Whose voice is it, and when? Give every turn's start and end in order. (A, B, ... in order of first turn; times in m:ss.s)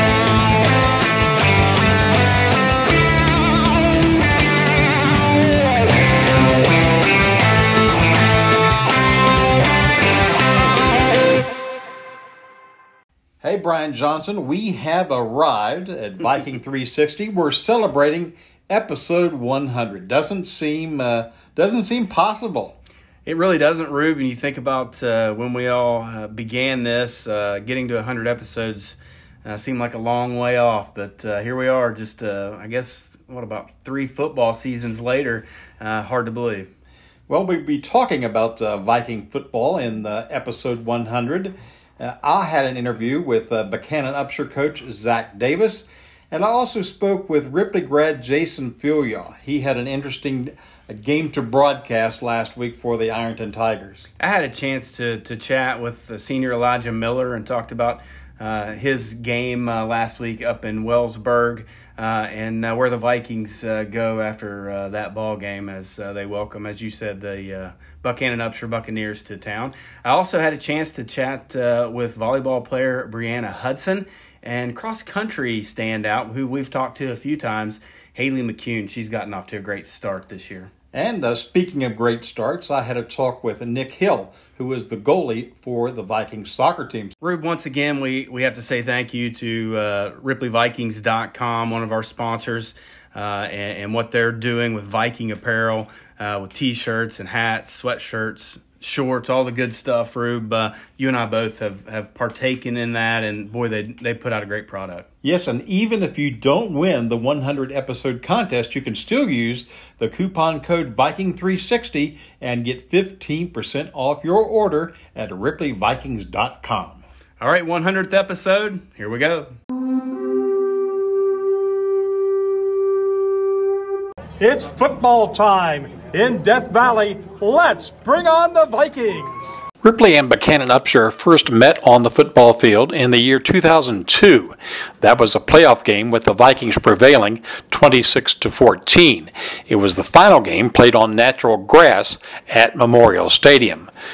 0:13.4-0:22.8 A
0:23.3-0:36.7 B
0:37.3-0:54.1 A
0:54.2-1:20.7 B
1:20.9-1:27.2 A
1:27.2-1:45.1 B
1:45.2-1:57.0 A
1:57.4-1:59.6 B
2:04.4-2:09.5 C
2:09.8-2:23.9 A